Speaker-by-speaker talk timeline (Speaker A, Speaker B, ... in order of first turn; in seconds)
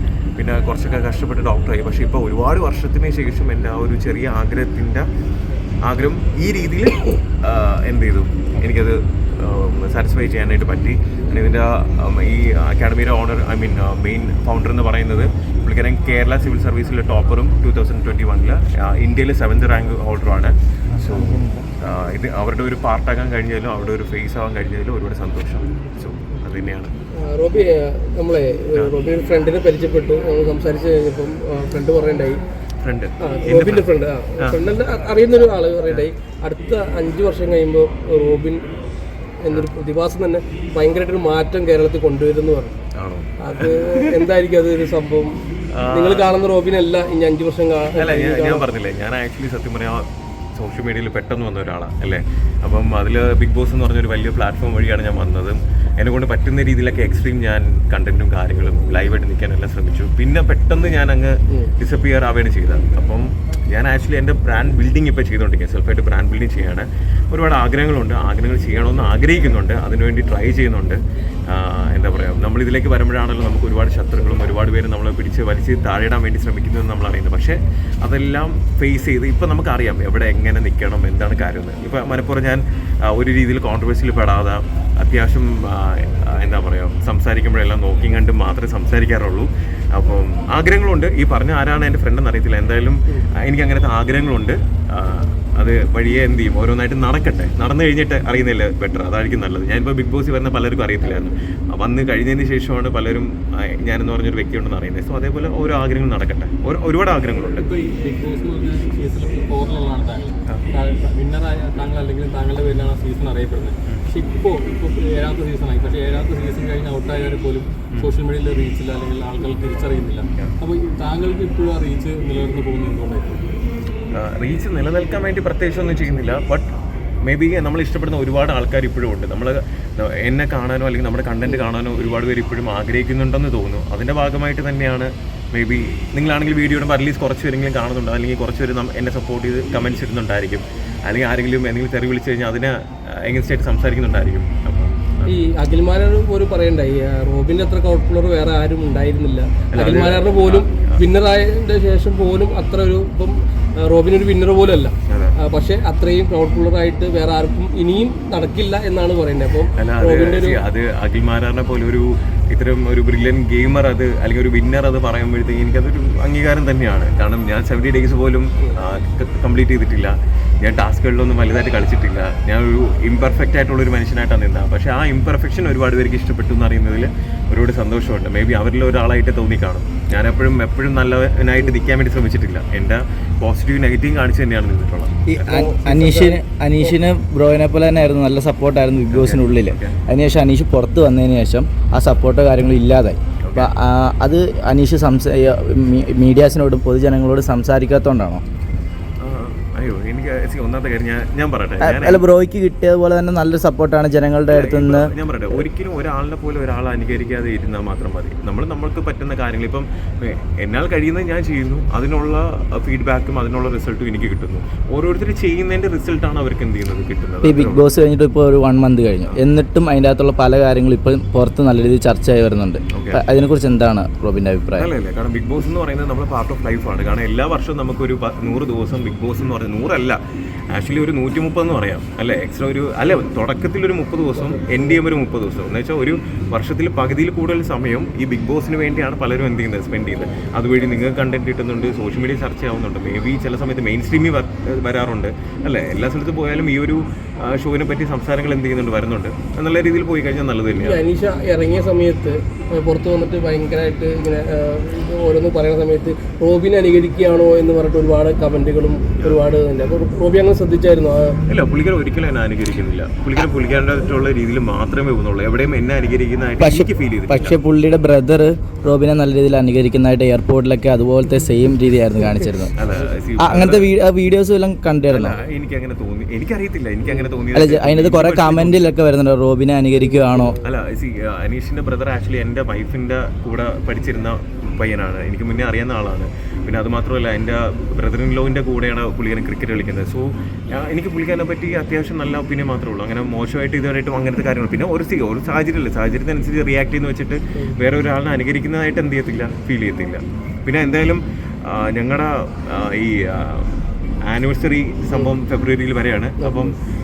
Speaker A: 0.4-5.0, 5.8-26.9, 32.8-34.9, 43.0-44.2, 45.7-46.3, 47.9-107.7, 124.1-126.7, 127.2-145.4, 149.7-151.0, 155.1-155.3, 159.8-185.4, 189.1-190.0, 193.4-193.7, 199.2-202.2, 204.5-217.8, 222.9-223.2, 224.8-230.2, 230.7-251.0, 261.5-267.6, 272.8-273.9, 275.1-278.9, 280.6-306.8
Speaker B: 27.1-32.4, 33.2-38.6, 39.4-42.8, 43.4-45.4, 45.9-48.6, 145.3-160.6, 185.3-187.0, 250.8-261.4, 280.0-280.6, 306.4-306.7
Speaker C: 107.6-123.5
Speaker D: 185.4-198.4, 201.8-205.1, 217.4-224.9, 266.6-272.7, 273.4-275.4, 277.6-280.6